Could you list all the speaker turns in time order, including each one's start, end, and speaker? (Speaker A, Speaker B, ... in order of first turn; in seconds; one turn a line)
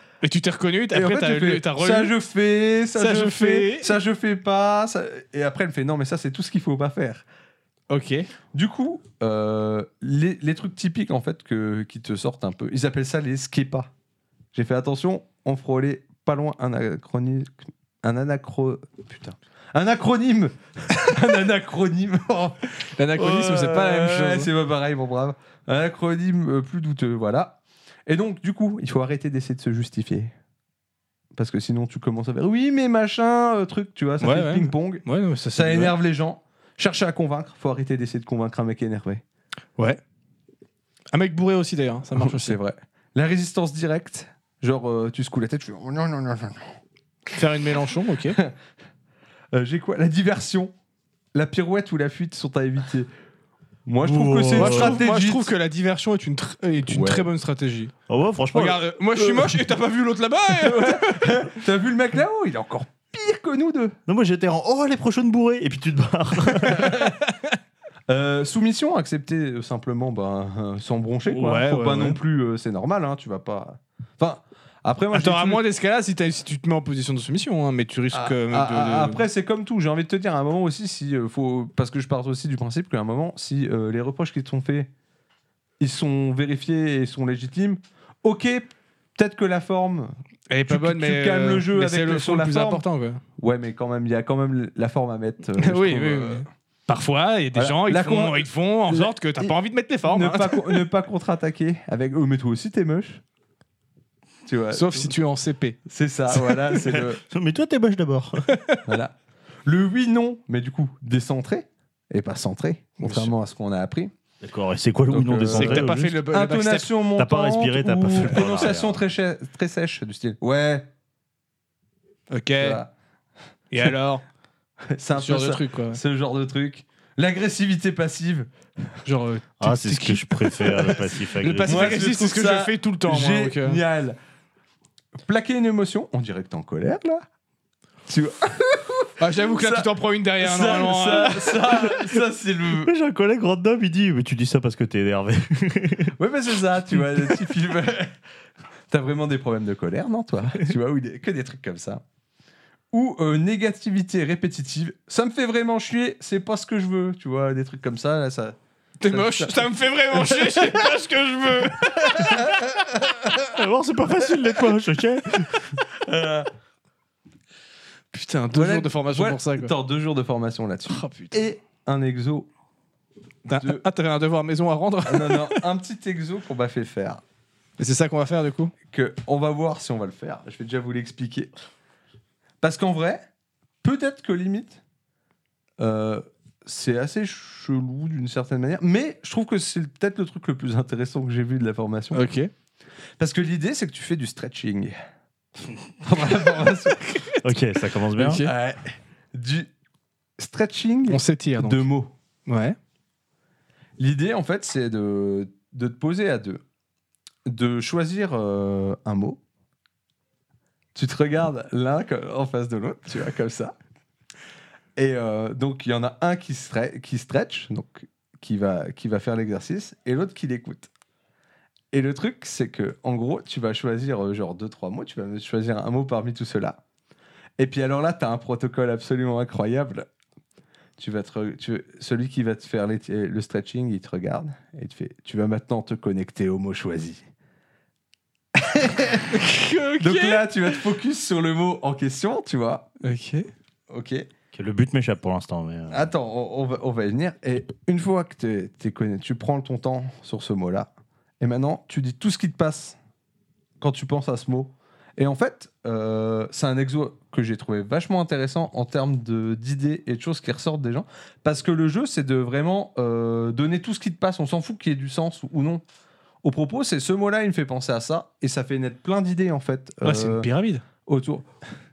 Speaker A: 0.2-2.1
Speaker B: 0.9-7.2
Speaker A: 3.0-4.0
Speaker A: 7.9-8.3
Speaker B: 8.5-13.9
Speaker B: 14.5-22.6
Speaker A: 23.0-24.5
Speaker B: 23.1-30.3
Speaker B: 31.4-39.2
Speaker A: 34.2-36.0
Speaker A: 41.1-42.6
Speaker B: 42.2-46.7
Speaker A: 47.3-48.4
Speaker B: 49.5-50.7
Speaker B: 51.3-53.1
Speaker B: 53.9-55.5
Speaker C: 54.0-55.0
Speaker A: 54.6-57.9
Speaker B: 56.9-57.3
Speaker C: 58.1-58.8
Speaker A: 58.5-61.5
Speaker B: 59.2-59.6
Speaker B: 60.5-64.0
Speaker C: 64.1-67.0
Speaker B: 66.6-67.2
Speaker A: 66.7-67.6
Speaker B: 68.1-75.6
Speaker A: 71.3-72.2
Speaker A: 75.1-79.2
Speaker B: 78.1-84.9
Speaker B: 85.8-90.1
Speaker A: 90.5-93.2
Speaker B: 90.7-92.8
Speaker B: 93.4-96.5
Speaker A: 95.6-100.8
Speaker B: 97.5-99.5
Speaker B: 100.0-103.2
Speaker B: 104.5-105.1
Speaker A: 104.7-105.8
Speaker B: 105.9-107.2
Speaker C: 106.8-108.5
Speaker A: 108.5-108.8
Speaker B: 108.9-109.2
Speaker B: 109.7-114.1
Speaker A: 113.0-113.3
Speaker C: 114.4-116.2
Speaker B: 115.1-120.9
Speaker A: 115.5-116.9
Speaker C: 117.2-119.0
Speaker A: 122.3-122.8
Speaker B: 122.6-122.9
Speaker A: 123.7-124.2
Speaker B: 124.9-128.5
Speaker A: 125.2-126.0
Speaker A: 129.1-133.8
Speaker C: 129.6-132.0
Speaker B: 131.7-134.2
Speaker B: 135.3-137.2
Speaker B: 138.1-139.9
Speaker A: 139.2-141.7
Speaker B: 140.4-142.9
Speaker C: 141.8-146.2
Speaker B: 146.2-148.1
Speaker B: 148.9-152.0
Speaker B: 152.9-160.9
Speaker A: 159.0-162.5
Speaker B: 162.0-163.5
Speaker C: 163.5-165.8
Speaker B: 166.0-166.5
Speaker A: 168.1-169.7
Speaker B: 168.5-172.5
Speaker A: 170.9-171.4
Speaker B: 173.5-173.8
Speaker A: 173.5-175.6
Speaker B: 175.1-177.2
Speaker A: 177.8-178.7
Speaker B: 178.9-181.5
Speaker B: 182.6-183.2
Speaker B: 183.8-184.8
Speaker B: 185.8-192.3
Speaker A: 192.1-192.5
Speaker B: 193.2-195.0
Speaker B: 196.0-197.0
Speaker A: 197.0-197.6
Speaker C: 197.4-198.4
Speaker A: 198.2-198.5
Speaker B: 198.4-199.7
Speaker B: 200.4-202.1
Speaker A: 201.1-201.9
Speaker A: 202.5-202.8
Speaker B: 204.0-206.6
Speaker B: 207.5-209.4
Speaker B: 210.9-213.8
Speaker B: 215.0-220.9
Speaker B: 221.9-226.8
Speaker B: 227.6-230.1
Speaker B: 231.0-237.3
Speaker B: 238.6-239.4
Speaker A: 239.3-240.8
Speaker B: 240.0-242.9
Speaker A: 243.0-243.5
Speaker B: 243.9-244.3
Speaker C: 244.5-246.1
Speaker B: 245.9-250.9
Speaker B: 251.4-253.0
Speaker B: 253.8-265.8
Speaker B: 266.4-270.5
Speaker A: 270.0-270.8
Speaker B: 271.1-271.5